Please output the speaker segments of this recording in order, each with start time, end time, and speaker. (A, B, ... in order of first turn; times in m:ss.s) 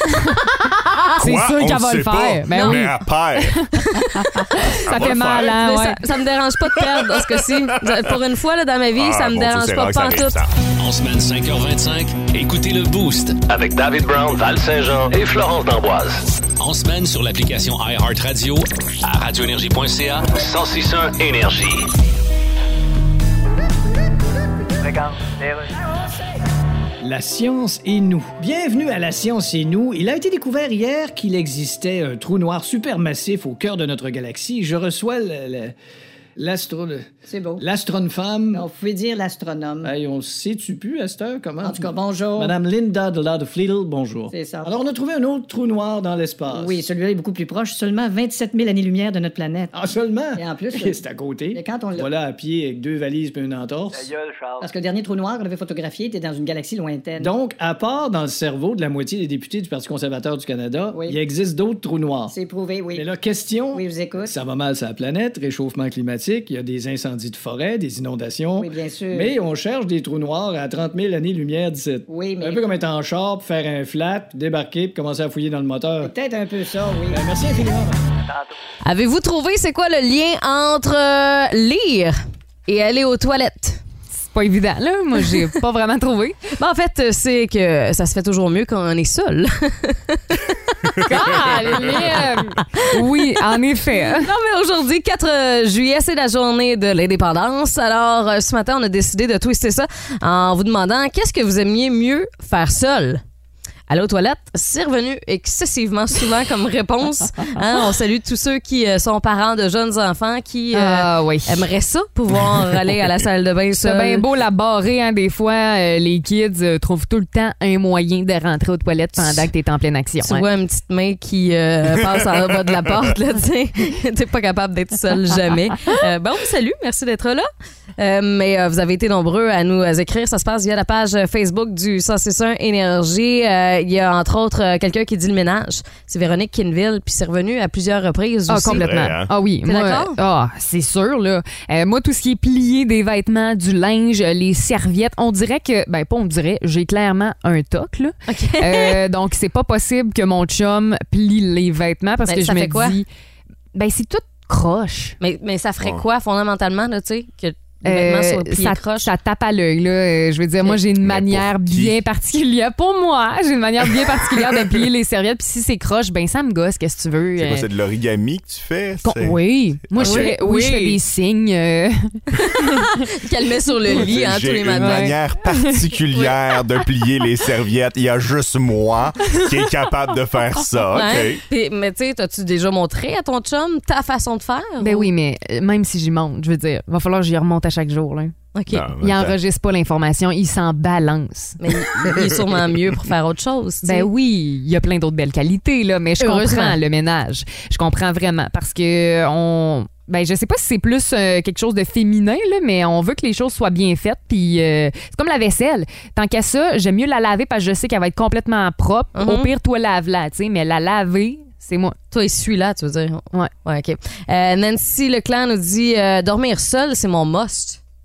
0:01.2-0:06.0 A
0:01.2-0:03.6 B
0:02.5-0:02.9 C
0:04.0-0:04.5 C
0:04.9-0:05.6 B
0:05.3-0:10.4 C
0:06.8-0:08.2 B
0:09.0-0:10.5 B
0:10.8-0:13.4 D
0:13.5-0:16.2 E
0:16.6-0:20.3 D
0:20.3-0:21.9 E
0:27.0-0:35.7 F
0:36.4-0:37.1 F
0:37.3-0:37.6 G
0:37.6-0:38.7 F
0:38.5-0:39.9 G
0:39.8-0:46.8 F
0:41.6-0:42.6 G
0:44.3-0:44.8 G
0:46.5-0:49.7 G
0:49.7-0:54.1 F
0:50.4-0:52.1 G
0:54.6-0:57.3 G
0:57.2-1:02.3 F
1:00.9-1:01.2 G
1:02.3-1:03.1 G
1:02.9-1:16.1 F
1:03.7-1:04.3 G
1:08.6-1:09.4 G
1:12.1-1:12.7 G
1:16.0-1:17.2 G
1:17.1-1:18.0 F
1:18.8-1:22.2 C
1:22.7-1:23.8 C
1:24.2-1:26.4 A
1:26.6-1:31.9 C
1:31.0-1:34.3 A
1:34.0-1:43.2 C
1:43.9-1:54.2 C
1:50.7-1:51.7 A
1:53.8-2:00.4 A
1:59.2-1:59.5 C
2:00.2-2:20.2 C
2:18.5-2:33.1 A
2:18.7-2:19.3 B
2:28.3-2:29.0 C
2:32.3-2:33.0 C
2:33.7-2:35.2 A
2:35.2-2:39.1 C
2:37.8-2:47.7 A
2:41.0-2:42.0 B
2:47.4-2:50.3 B
2:49.0-2:52.8 A
2:50.0-2:51.0 C
2:52.4-2:55.1 C
2:53.9-3:01.4 B
2:54.8-2:55.8 A
3:00.9-3:05.1 C
3:04.8-3:08.3 A
3:08.5-3:08.9 C
3:08.7-3:09.4 B
3:09.0-3:11.6 A
3:11.6-3:14.1 C
3:13.8-3:32.0 A
3:16.2-3:16.8 C
3:29.2-3:29.5 C
3:32.1-3:37.8 C